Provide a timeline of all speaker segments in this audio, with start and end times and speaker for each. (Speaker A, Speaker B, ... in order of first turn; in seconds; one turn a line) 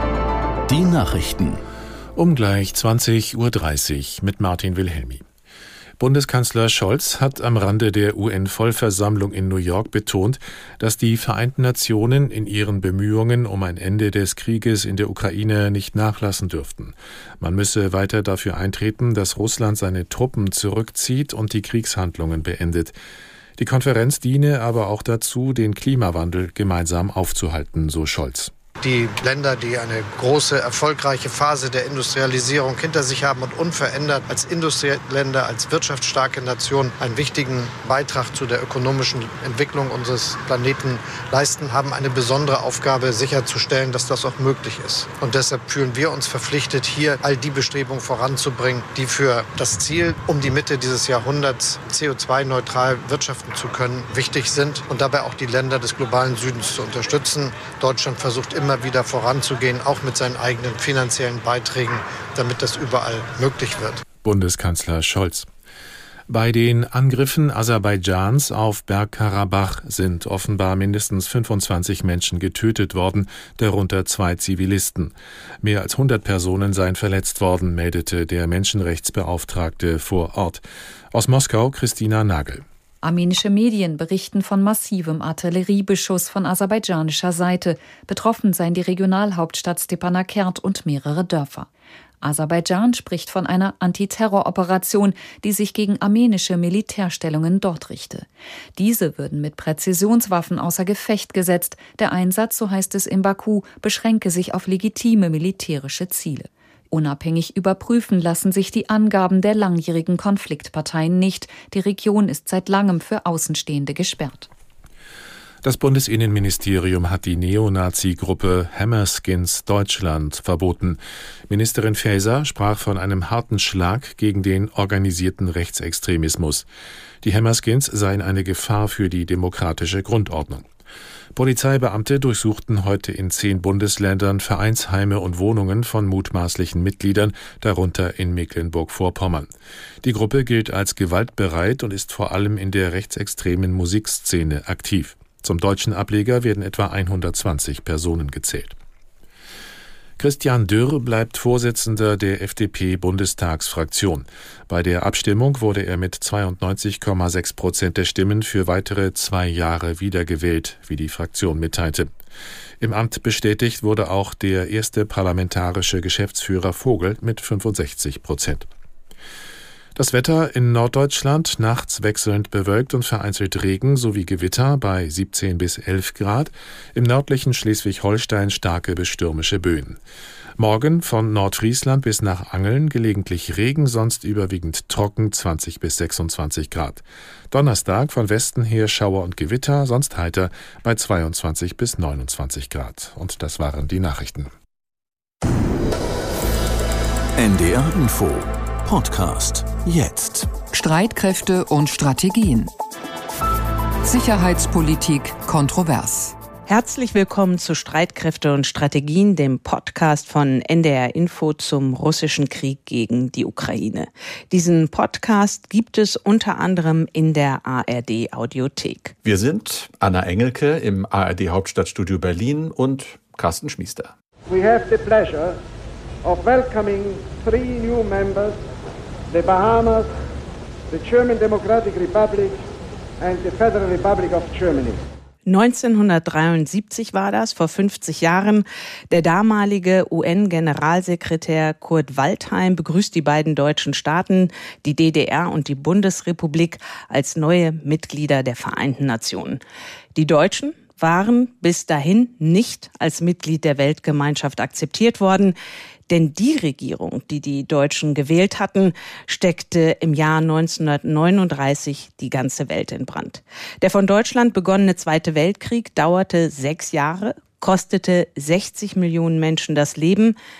Speaker A: 0.7-1.6
Speaker B: 2.2-5.2
Speaker B: 6.0-22.9
Speaker B: 23.6-28.5
Speaker C: 28.8-64.0
Speaker B: 64.2-65.5
Speaker B: 66.3-82.6
Speaker D: 83.0-91.7
Speaker D: 92.2-114.5
Speaker B: 115.6-126.7
Speaker B: 127.2-130.7
Speaker B: 131.3-139.5
Speaker B: 140.0-148.8
Speaker B: 150.2-162.1
Speaker B: 162.8-168.7
Speaker B: 169.9-180.0
Speaker B: 180.6-194.5
Speaker A: 197.4-200.5
Speaker E: 200.7-202.7
Speaker E: 204.0-206.3
Speaker F: 206.7-219.2
Speaker G: 219.2-224.1
Speaker H: 224.5-225.6
Speaker H: 226.2-228.6
Speaker H: 229.3-230.1
Speaker H: 230.9-232.6
Speaker H: 233.2-235.0
Speaker F: 235.5-249.6
Speaker F: 250.2-255.6
Speaker F: 256.1-270.4